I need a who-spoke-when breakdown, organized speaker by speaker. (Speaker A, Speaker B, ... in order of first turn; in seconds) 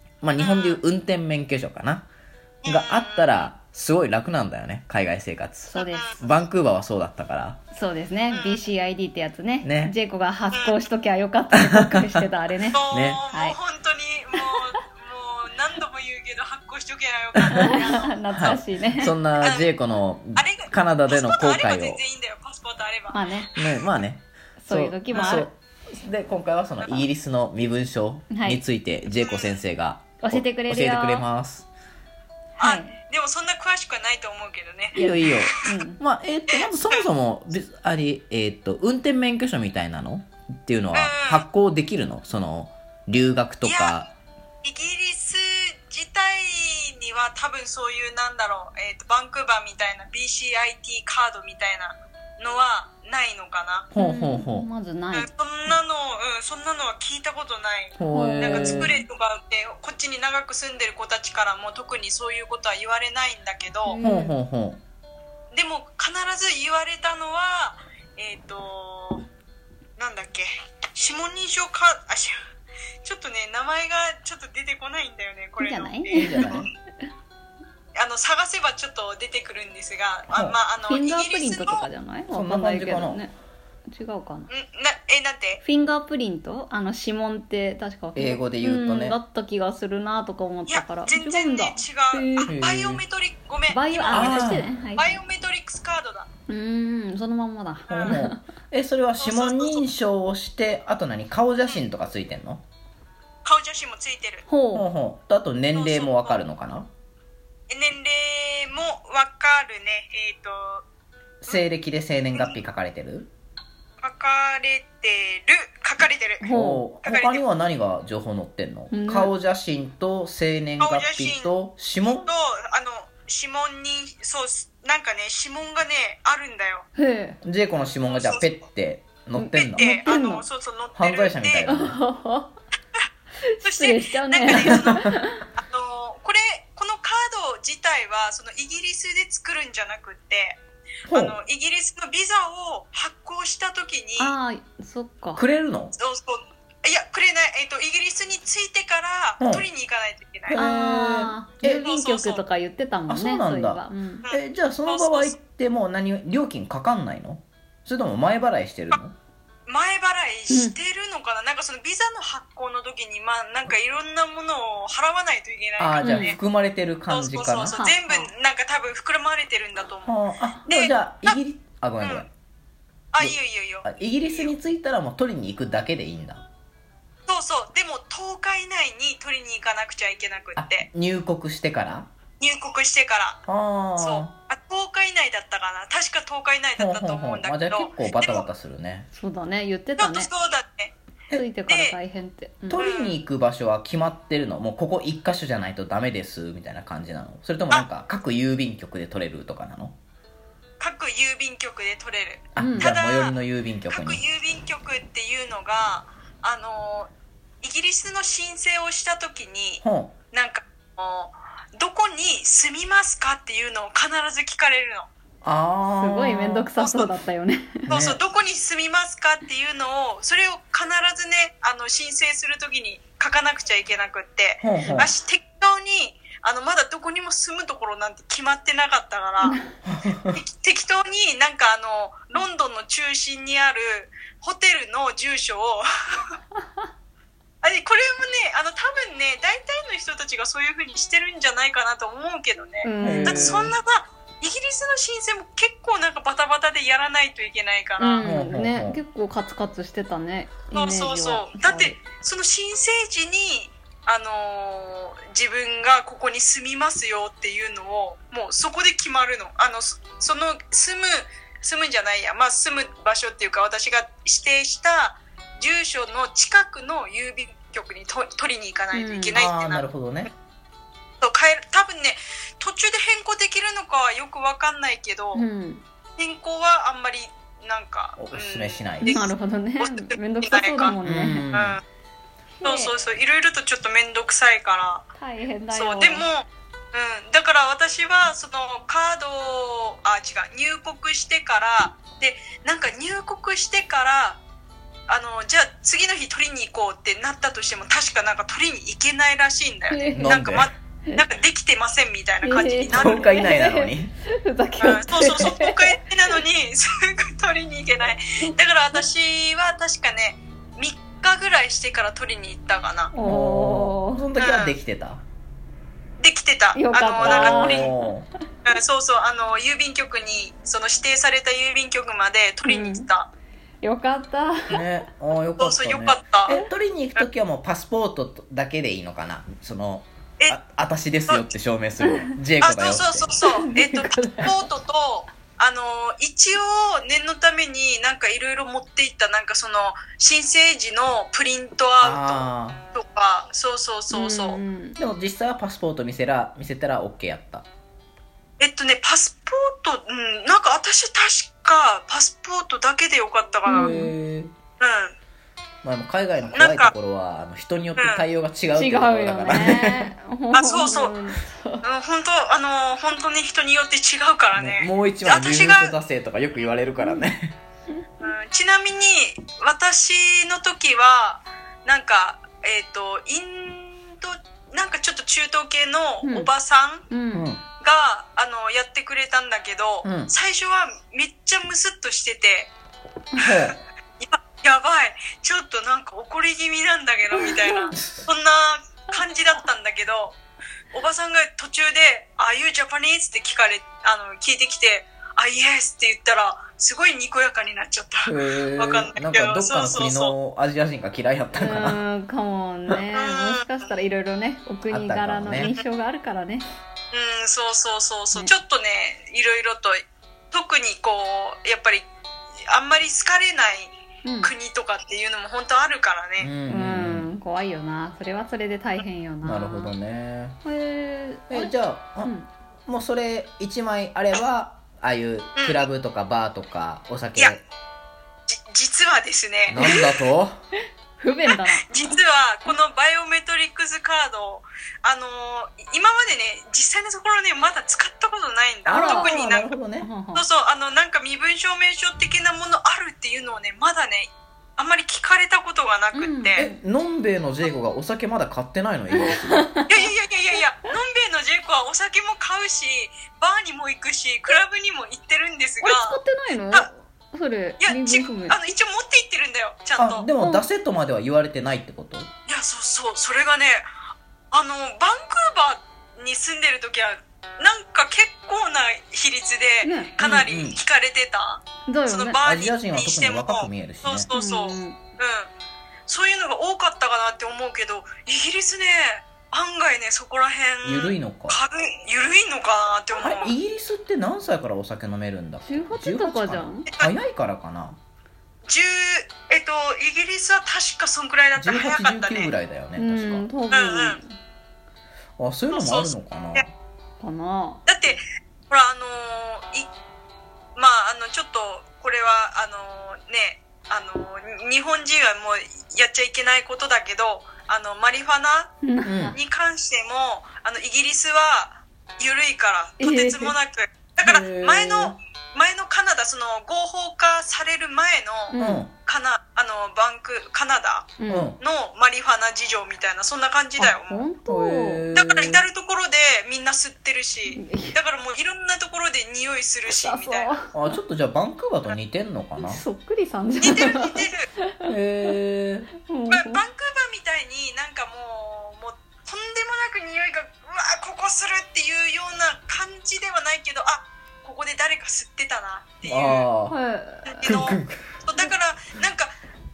Speaker A: 0.2-2.1, 2.6-7.6, 9.6-9.9, 11.5-12.2, 12.9-13.2, 17.4-17.7, 18.3-22.0, 23.6-31.7, 34.9-44.1, 53.9-54.7, 58.0-59.0, 64.0-64.8, 76.2-76.7, 80.3-80.6, 82.3-83.2, 88.2-89.2, 92.5-93.0, 94.1-94.7, 97.9-102.6, 104.7-106.9, 111.4-113.3, 116.5-122.3, 127.4-130.1, 130.9-132.0, 141.1-141.3, 145.3-145.9, 149.4-149.7, 150.5-151.9, 153.1-159.1, 165.8-167.8, 170.1-172.3, 173.2-176.4, 180.6-182.1, 183.5-184.3, 186.8-189.1, 192.7-199.9, 202.6-204.2, 209.8-210.1, 215.4-216.7, 217.9-218.2, 224.6-225.1, 229.8-230.4, 243.0-243.8, 248.2-249.0, 269.3-270.3, 278.2-279.2, 281.0-281.8, 300.1-300.7, 302.9-304.1, 313.2-315.2, 317.2-318.3, 324.7-333.3, 342.0-342.8, 345.0-347.6, 353.7-354.5, 355.8-360.1, 364.5-367.6, 377.3-377.6, 380.0-380.3, 383.4-383.8, 398.2-402.0, 404.9-405.7, 416.4-417.3, 419.4-420.6, 421.5-422.3, 422.9-427.6, 429.7-430.6, 438.9-440.1, 446.6-449.7, 460.0-462.3, 470.2-470.8, 472.4-474.3, 480.8-481.6, 483.2-488.0, 491.6-493.5, 495.4-496.7, 509.0-509.4, 514.2-515.1, 518.6-518.9, 521.3-521.6, 524.5-525.6, 530.7-532.8, 534.8-535.9, 546.0-546.8, 547.4-548.2
Speaker B: 0.4-0.8, 2.6-3.5, 5.7-6.2, 8.3-8.7, 10.5-10.9, 12.7-18.6, 19.4-19.8, 20.3-23.4, 25.1-25.4, 29.2-29.6, 32.6-35.5, 36.5-37.0, 40.9-41.5, 43.6-44.1, 44.6-53.9, 55.1-64.0, 65.5-69.2, 70.0-72.3, 73.0-76.6, 78.0-81.9, 84.5-85.6, 90.7-96.3, 97.9-98.2, 99.2-99.8, 103.4-104.4, 105.7-106.4, 107.7-110.8, 114.0-116.5, 117.0-117.4, 120.8-121.5, 122.0-126.8, 128.1-128.6, 129.5-131.7, 133.6-140.6, 141.1-144.3, 145.9-150.6, 151.8-152.4, 154.2-155.4, 159.7-166.4, 167.1-171.4, 172.0-172.2, 173.1-174.5, 177.3-180.9, 182.4-183.4, 184.0-188.5, 190.0-190.9, 191.7-192.0, 192.7-193.2, 200.8-207.1, 207.6-215.1, 216.8-217.1, 217.9-229.6, 230.3-235.9, 237.6-248.2, 250.7-269.9, 271.2-275.4, 276.2-280.9, 281.5-281.8, 282.6-285.1, 285.7-294.4, 295.1-303.4, 304.8-313.1, 314.4-314.8, 316.2-317.9, 318.6-323.3, 325.6-326.5, 332.6-344.6, 348.6-353.9, 354.8-355.1, 356.5-356.9, 357.9-358.2, 360.5-361.1, 361.8-366.0, 368.2-377.1, 377.8-382.7, 383.4-390.4, 390.9-400.3, 403.1-404.0, 407.1-412.1, 412.7-416.5, 425.6-425.9, 427.4-427.6, 428.5-430.0, 431.5-439.8, 440.3-446.6, 449.9-456.2, 457.8-460.3, 462.5-463.9, 464.5-475.5, 476.1-483.5, 488.7-492.6, 493.7-494.2, 495.7-496.6, 497.9-499.9, 500.8-508.7, 509.3-524.3, 525.1-530.6, 533.6-534.5, 536.3-546.5, 547.3-549.3
Speaker C: 5.7-6.1, 7.7-12.8, 13.3-13.6, 17.5-19.1, 23.1-23.7, 24.6-25.5, 28.3-28.6, 30.2-31.2, 32.6-33.0, 35.0-36.0, 54.0-55.3, 58.1-59.0, 63.8-64.3, 75.6-76.6, 80.9-83.3, 83.9-84.5, 85.6-92.5, 93.7-95.2, 96.5-98.4, 104.5-104.9, 116.4-116.9, 118.9-119.3, 127.0-127.4, 129.4-130.4, 131.6-132.5, 133.4-135.4, 144.2-145.4, 150.5-154.2, 160.5-160.8, 166.0-166.4, 167.7-168.3, 189.1-190.3, 191.3-192.9, 202.6-202.9, 215.9-217.9, 229.4-229.7, 242.8-243.7, 248.0-252.0, 268.9-269.4, 275.3-275.8, 279.1-281.4, 282.6-282.9, 285.2-286.3, 299.9-300.4, 302.4-305.9, 313.1-314.3, 316.7-318.1, 322.6-323.1, 323.8-324.8, 332.0-332.3, 333.6-334.5, 344.1-345.0, 353.7-354.1, 358.7-361.8, 367.0-367.3, 376.2-376.5, 377.1-377.5, 387.4-387.9, 401.5-406.7, 414.2-414.5, 416.7-419.9, 420.6-422.5, 429.8-430.1, 431.2-431.9, 438.9-439.4, 440.0-440.4, 446.1-446.8, 449.1-449.9, 455.8-458.6, 460.4-460.7, 469.8-470.1, 471.9-472.4, 474.3-475.0, 485.6-486.9, 492.9-494.4, 497.2-497.8, 508.8-509.3, 513.0-513.5, 518.5-518.9, 521.2-521.5, 524.0-525.1, 527.5-528.0, 529.9-531.0, 532.6-535.3, 536.0-536.6, 546.7-547.5